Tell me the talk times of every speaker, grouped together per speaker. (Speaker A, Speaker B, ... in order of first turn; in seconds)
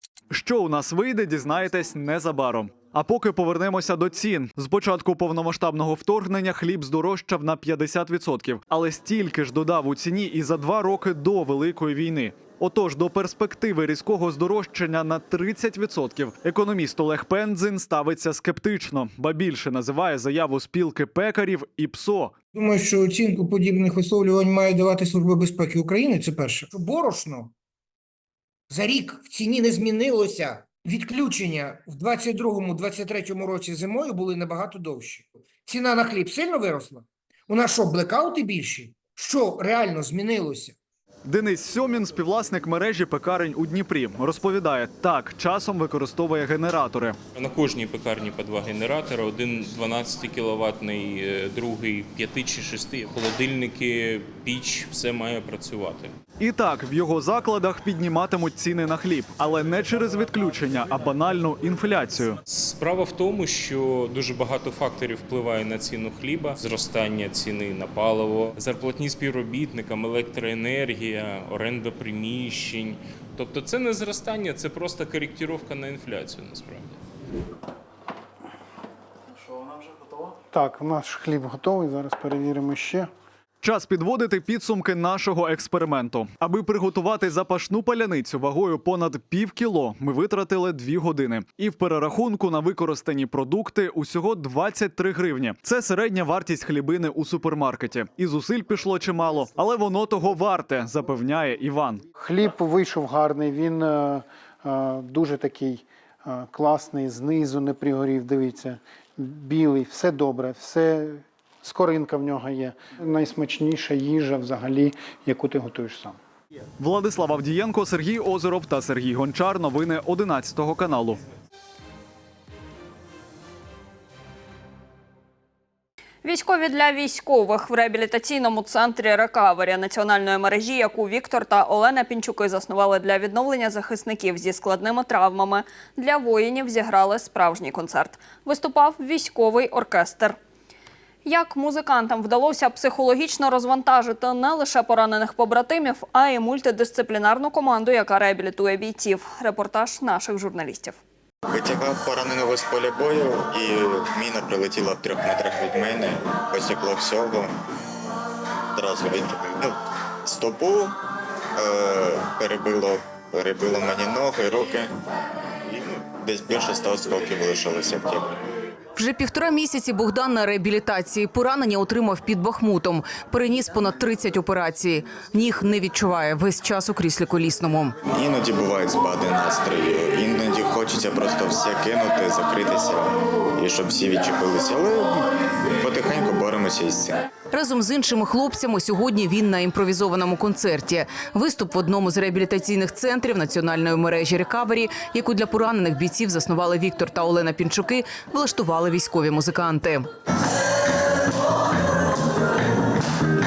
Speaker A: 0.3-22.3, 41.3-47.2, 56.4-62.4, 83.6-102.0, 116.8-121.2
Speaker B: 22.5-27.5, 28.7-40.8
Speaker C: 47.4-56.1, 62.5-77.0
Speaker D: 80.5-83.1, 102.2-116.2
Speaker E: 126.2-140.4, 141.2-151.0
Speaker F: 151.5-157.5, 158.7-161.0, 161.6-164.9, 165.6-168.3, 178.1-187.3
Speaker G: 169.0-178.0, 187.5-200.1